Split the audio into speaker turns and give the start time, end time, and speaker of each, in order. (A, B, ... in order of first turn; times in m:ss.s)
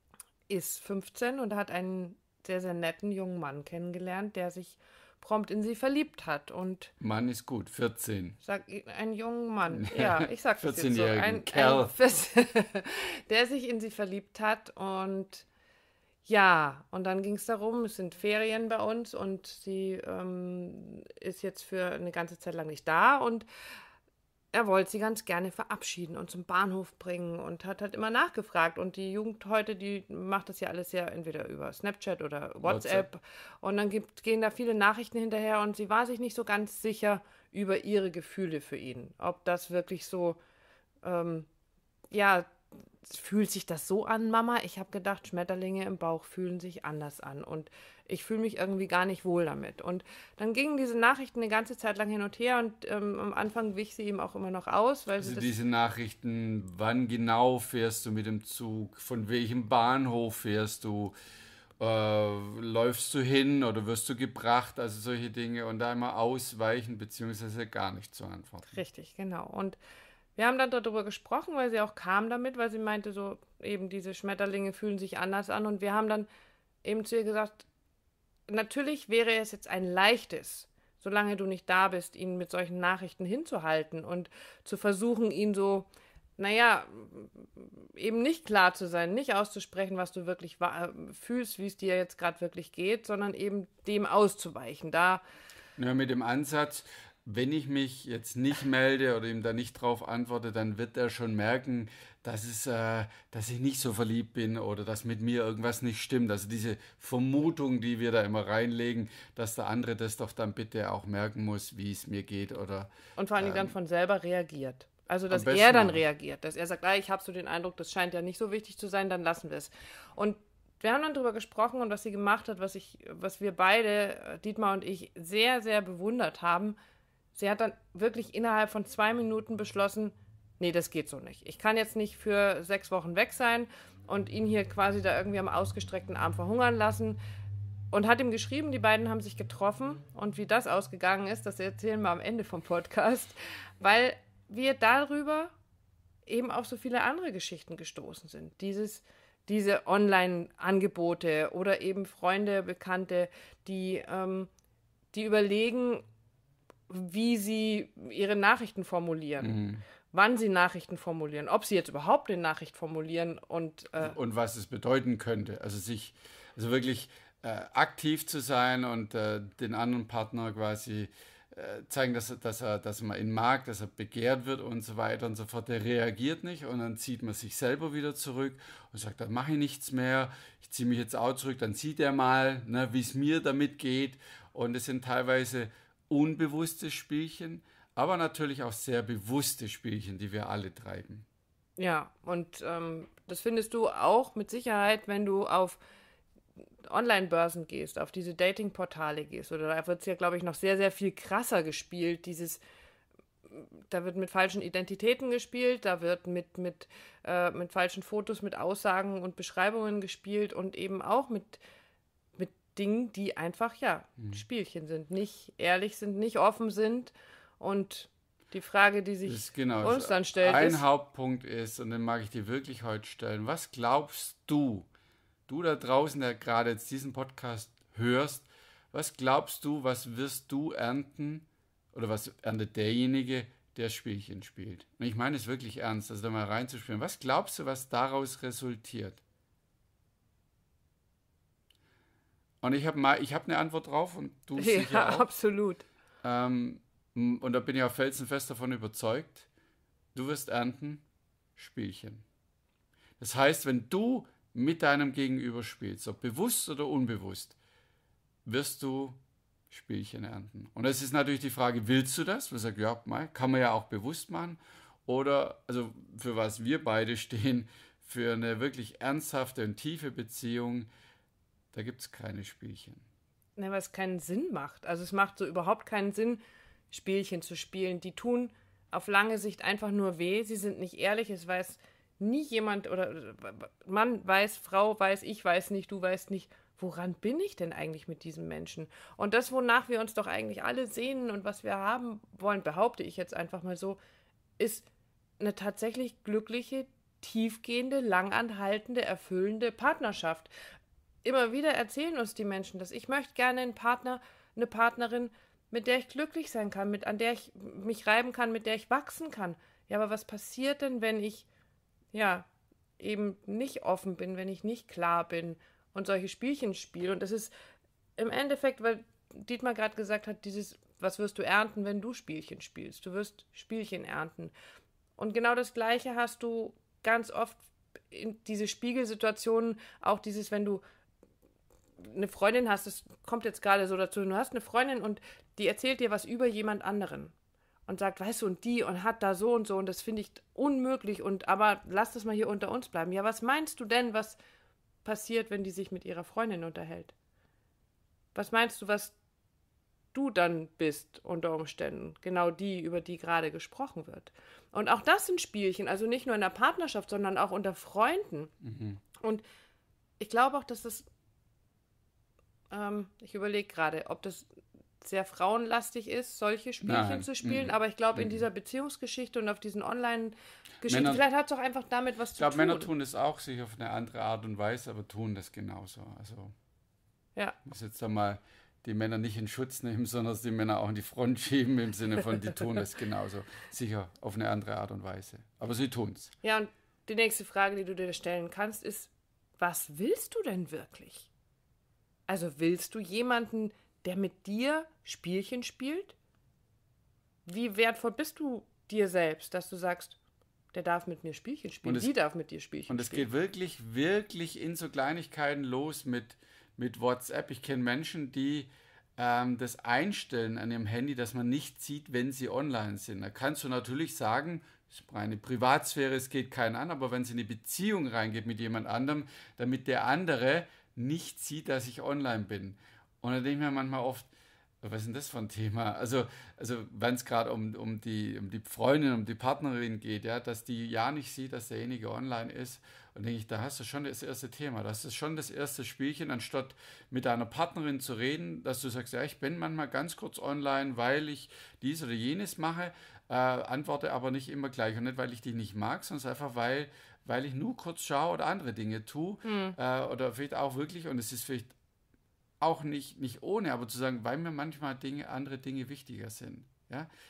0:00.5-0:06.9 A
0:07.0-0:08.4 B
0:08.4-0:15.4 A
0:09.7-0:11.9 B
0:16.2-0:23.5 A
0:24.5-0:40.4 A
0:32.6-0:33.1 B
0:41.0-0:41.5 A
0:42.1-0:42.5 A
0:43.0-0:55.5 A
0:55.2-1:01.2 B
1:01.8-1:08.8 B
1:08.7-1:09.8 A
1:10.4-1:16.3 A
1:16.8-1:17.7 A
1:18.5-1:35.2 A
1:35.8-1:53.7 B
1:53.2-2:06.8 A
1:55.3-1:56.0 B
2:07.4-2:17.2 A
2:17.9-2:25.5 A
2:26.3-2:34.5 A
2:35.1-2:36.0 A
2:36.9-2:39.6 A
2:39.4-2:39.8 B
2:40.1-2:44.2 A
2:44.0-3:11.2 B
3:11.8-3:15.8 A
3:16.8-3:22.6 A
3:23.5-3:31.6 A
3:32.4-3:40.8 A
3:39.3-3:44.9 B
3:45.5-3:59.2 B
4:02.6-4:05.3 B
4:04.6-4:05.8 A
4:06.2-4:09.5 B
4:10.2-4:11.0 B
4:11.6-4:12.2 B
4:13.2-4:17.6 B
4:18.5-4:19.2 B
4:19.7-4:30.9 B
4:31.7-4:33.0 B
4:33.6-4:54.0 A
4:54.6-4:54.9 A
4:55.4-5:00.5 A
5:01.2-5:11.5 A
5:12.1-5:12.5 A
5:13.0-5:17.5 A
5:18.2-5:24.5 A
5:25.2-5:30.8 A
5:32.0-5:37.3 A
5:37.9-5:44.4 A
5:45.0-5:47.1 A
5:48.3-5:49.2 A
5:50.1-5:58.5 A
5:58.6-5:59.0 B
5:59.2-5:59.4 A
6:00.2-6:01.1 A
6:02.7-6:04.5 A
6:05.0-6:12.9 A
6:06.8-6:08.4 B
6:10.9-6:11.2 B
6:12.4-6:16.5 B
6:17.6-6:26.3 B
6:26.4-6:31.3 A
6:32.3-6:36.2 A
6:37.5-6:40.2 A
6:40.7-6:43.3 A
6:41.8-6:42.1 B
6:42.9-7:04.3 B
7:04.8-7:31.8 B
7:29.4-7:29.8 A
7:32.6-7:37.1 B